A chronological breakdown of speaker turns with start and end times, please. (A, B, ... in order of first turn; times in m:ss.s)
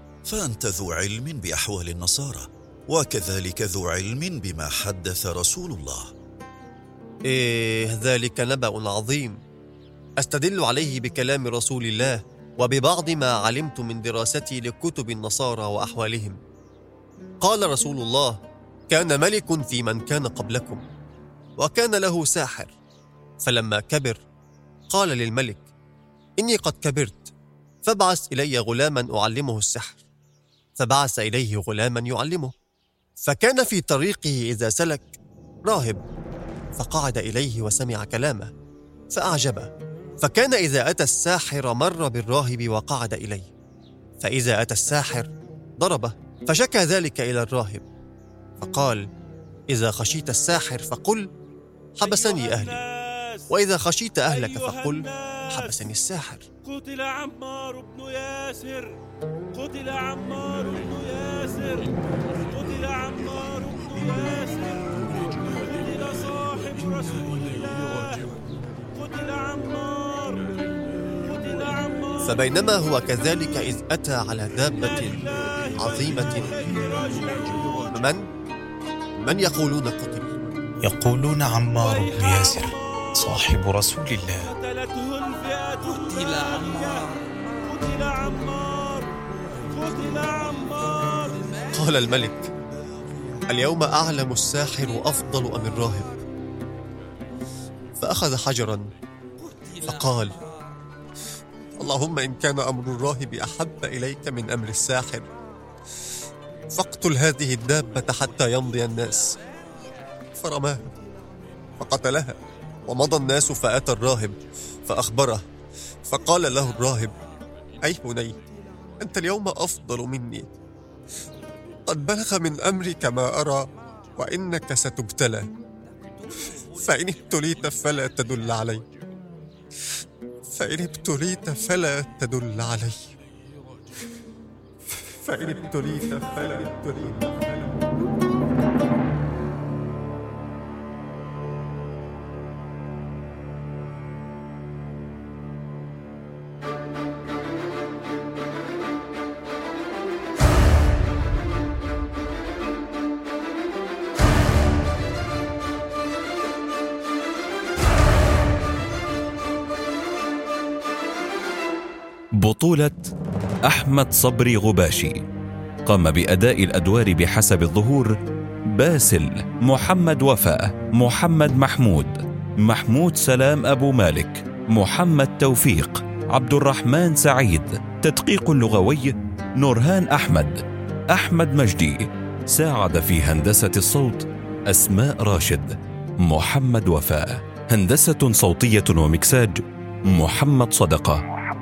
0:00.2-0:06.1 A
0:07.3-0:09.4 B
0:10.2-0:16.4 B
0:17.4-0:18.4 B
0:18.9-0:20.9 B
0:21.6-0:22.7 B
0:23.4-0:24.2 B
0:24.9-0:25.7 B
0:26.4-0:27.3 B
0:27.8-0:30.0 B
0:30.8-0:32.5 B
0:33.2-0:36.0 B
0:36.8-0:38.5 B
0:39.1-0:43.5 B
0:44.2-0:47.8 B
0:48.6-0:49.0 B
0:49.7-0:51.3 B
0:52.0-0:52.8 B
0:53.5-0:56.5 B
0:57.0-0:58.9 C
0:59.7-1:01.8 C
1:03.0-1:04.6 C
1:05.8-1:07.2 C
1:09.6-1:10.4 C
1:12.2-1:15.2 B
1:15.8-1:18.3 B
1:19.2-1:20.3 B
1:20.8-1:24.6 D
1:26.1-1:26.8 D
1:27.9-1:28.6 C
1:30.0-1:30.8 C
1:31.7-1:32.5 B
1:33.5-1:36.2 B
1:38.0-1:38.9 B
1:39.8-1:40.4 B
1:41.8-1:45.3 B
1:46.7-1:49.4 B
1:50.4-1:50.8 B
1:51.8-1:54.4 B
1:54.9-1:55.4 B
1:56.1-1:57.1 B
1:57.8-1:58.4 B
1:59.0-2:00.5 B
2:01.9-2:05.5 B
2:06.7-2:08.8 B
2:10.5-2:13.1 B
2:15.2-2:17.8 B
2:42.4-2:43.1 E
2:43.7-2:45.2 E
2:45.9-2:48.1 E
2:48.8-3:11.2 E